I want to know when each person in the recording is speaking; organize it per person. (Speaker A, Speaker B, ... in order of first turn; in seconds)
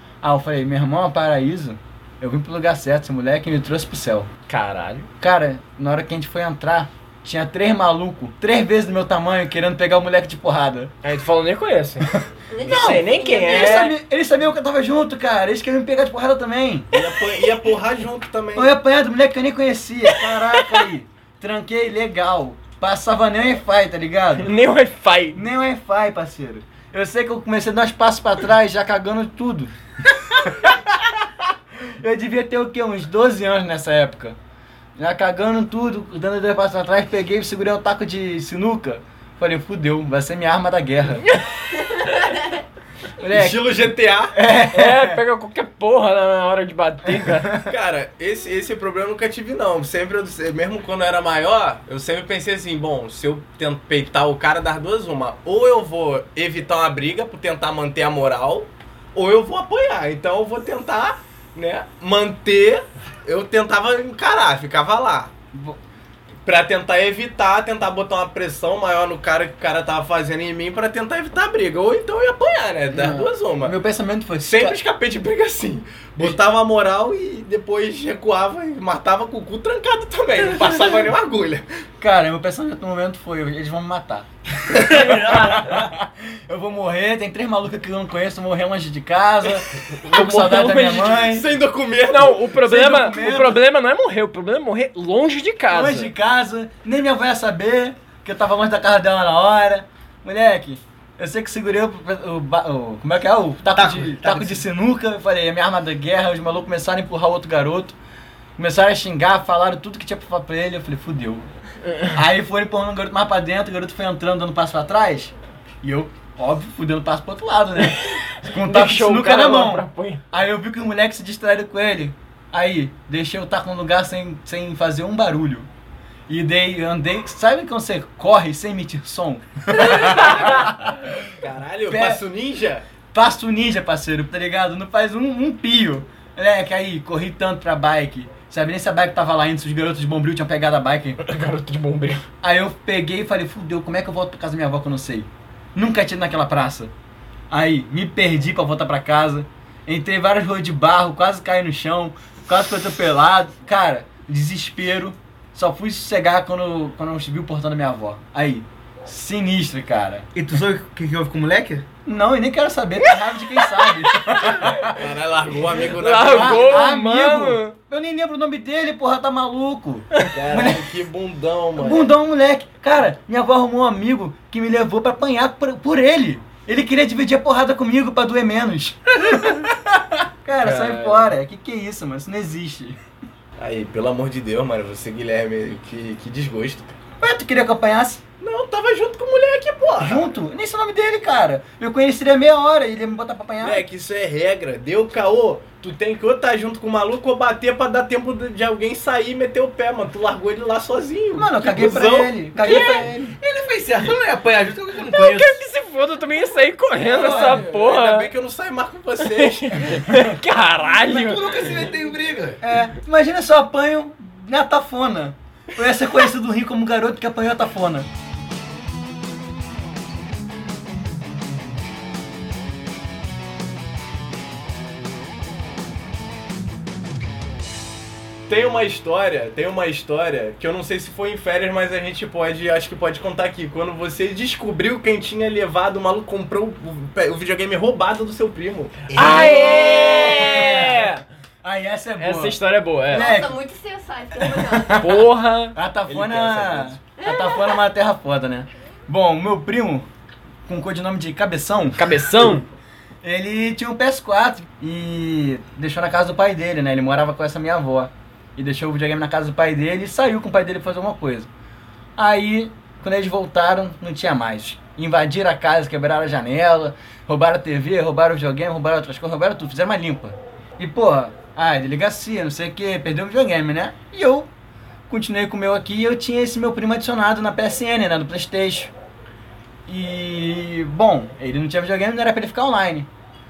Speaker A: 0.2-4.3, 5.2-10.9, 12.6-16.9, 18.6-24.5, 25.3-31.2, 32.0-34.4, 35.0-41.2, 43.2-43.8, 44.3-45.2, 47.1-47.7, 65.5-65.8, 72.9-74.8, 82.0-91.5, 92.6-93.6, 95.7-108.0, 108.6-111.5, 112.1-125.7, 126.3-131.4, 131.9-132.2, 133.1-141.2, 142.4-146.9, 147.5-160.3, 162.1-165.0, 166.2-170.9, 171.8-183.0, 187.2-188.2, 190.0-193.8, 201.4-203.3, 207.1-207.6, 212.6-218.1, 239.2-241.0, 241.6-243.6, 244.6-245.2, 245.7-250.1, 250.7-252.6, 253.2-261.5, 262.2-274.5, 275.1-278.9, 279.9-283.1
Speaker B: 4.5-5.1, 11.0-13.9, 20.6-20.9, 24.4-25.4, 41.3-42.1, 44.7-47.6, 84.9-85.8, 90.0-91.3, 92.1-96.1, 118.0-120.2, 129.9-130.4, 141.2-142.2, 163.8-164.4, 165.8-167.8, 180.6-181.3, 202.7-203.1, 205.1-208.3, 209.2-211.8, 239.2-241.2, 242.2-243.3, 245.0-245.8, 252.0-252.7
Speaker C: 12.5-13.8, 42.4-42.6, 243.1-245.2, 247.2-247.8
Speaker D: 16.9-18.7, 43.2-44.4, 47.6-65.3, 66.5-73.8, 74.4-81.7, 91.2-92.5, 131.3-132.9, 164.8-166.8, 170.3-172.1, 183.6-187.0, 188.4-190.3, 193.6-202.4, 207.0-210.0, 228.5-239.2, 246.1-247.0
Speaker E: 103.7-104.6, 160.3-161.9, 202.6-205.6, 211.0-212.6, 239.1-240.6